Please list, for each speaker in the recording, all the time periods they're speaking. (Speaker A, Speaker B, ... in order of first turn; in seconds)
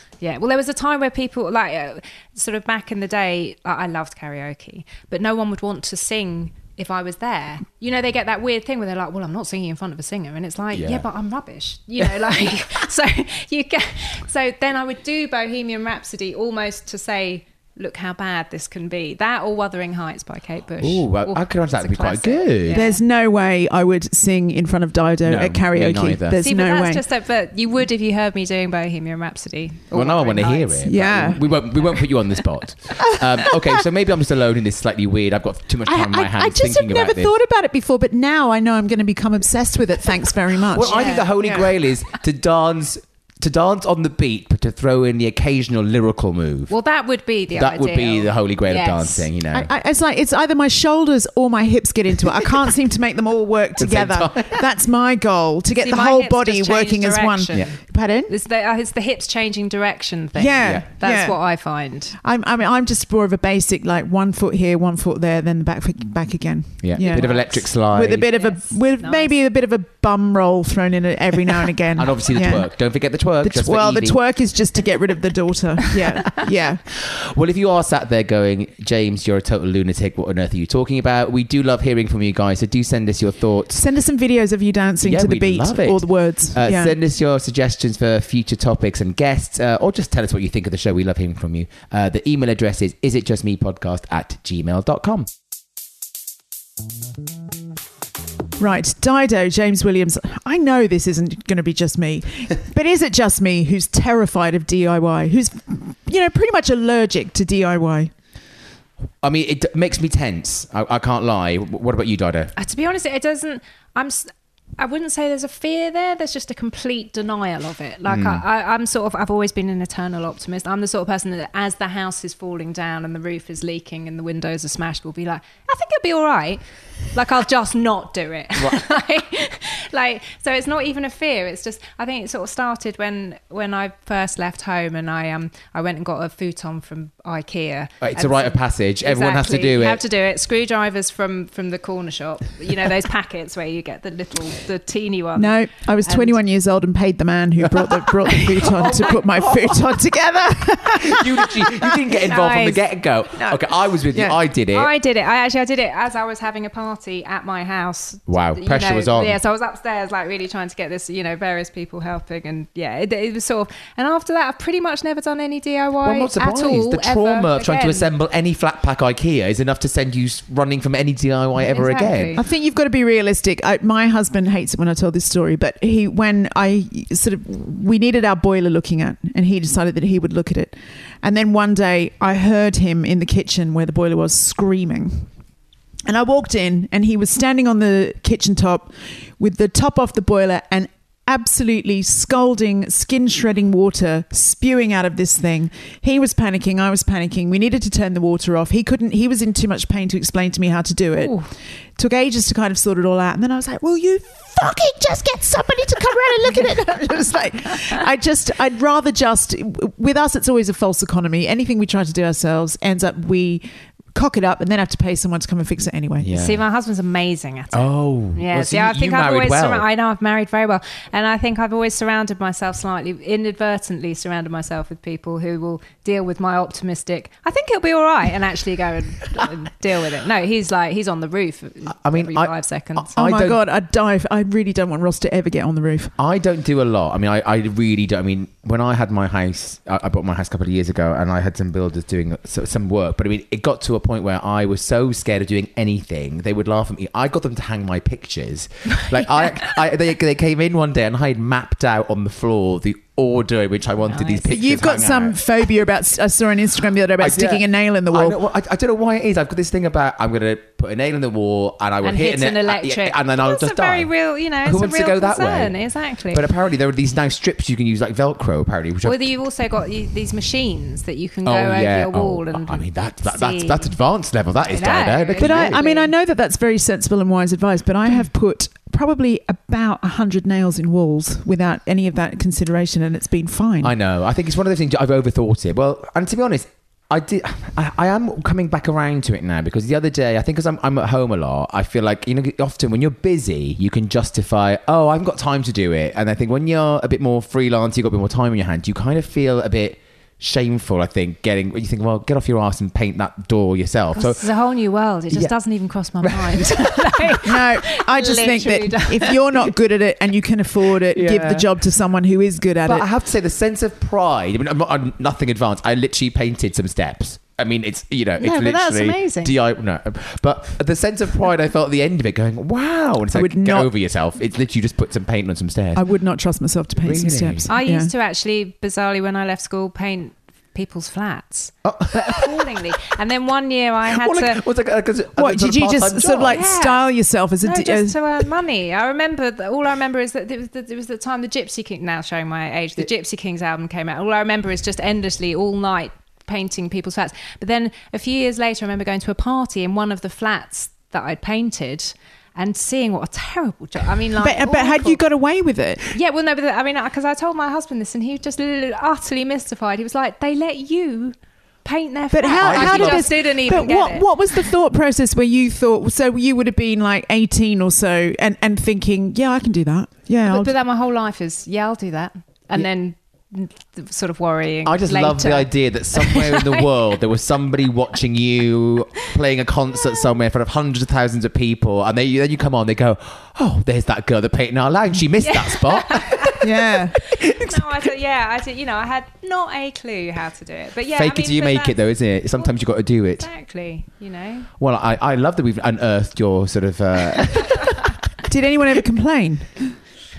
Speaker A: 0.2-23.0, 26.4-30.9, 40.8-41.3, 46.7-49.2, 55.8-57.8, 58.3-62.2, 67.0-67.6, 68.3-69.3, 112.5-126.6, 127.1-146.4, 152.3-152.9, 154.7-168.1, 171.6-172.4, 201.2-201.5, 216.3-233.1, 249.4-249.7, 254.1-254.5, 262.0-266.4, 269.0-273.9, 274.7-276.1, 304.1-309.6, 318.4-319.5, 327.7-334.6, 336.5-337.1, 337.6-355.2, 356.1-364.6, 370.4-376.9, 385.4-386.6, 387.6-392.0, 393.4-394.7
Speaker B: 10.7-11.1, 20.8-22.8, 25.2-26.4, 29.9-37.3, 40.7-46.7, 47.5-49.7, 53.8-54.6, 66.8-68.3, 72.0-74.2, 77.0-83.8, 85.0-95.3, 109.2-112.5, 118.1-118.4, 138.0-140.0, 148.7-149.8, 150.9-154.9, 158.3-159.4, 166.0-172.4, 216.2-216.6, 217.7-219.9, 231.9-233.6, 236.2-255.4, 257.2-264.1, 264.6-265.8, 266.3-269.4, 271.4-275.8, 283.8-304.4, 306.2-307.3, 311.1-311.7, 312.9-326.0, 327.0-327.7, 331.8-332.7, 334.1-336.6, 362.6-363.4, 374.8-386.6, 387.3-388.0, 391.1-393.5, 394.8-398.1
Speaker C: 22.7-27.0, 30.8-31.4, 35.9-41.7, 49.5-58.3, 60.3-61.4, 62.2-72.7, 73.4-76.8, 83.7-87.0, 98.6-108.1, 145.3-151.9, 153.4-154.4, 172.4-185.3, 186.1-201.4, 202.0-216.3, 233.1-236.1, 254.5-258.4, 275.4-283.9, 307.4-313.1, 323.3-323.9, 325.9-328.1, 335.4-338.2, 354.4-356.2, 362.3-370.7, 386.6-387.2, 398.5-399.9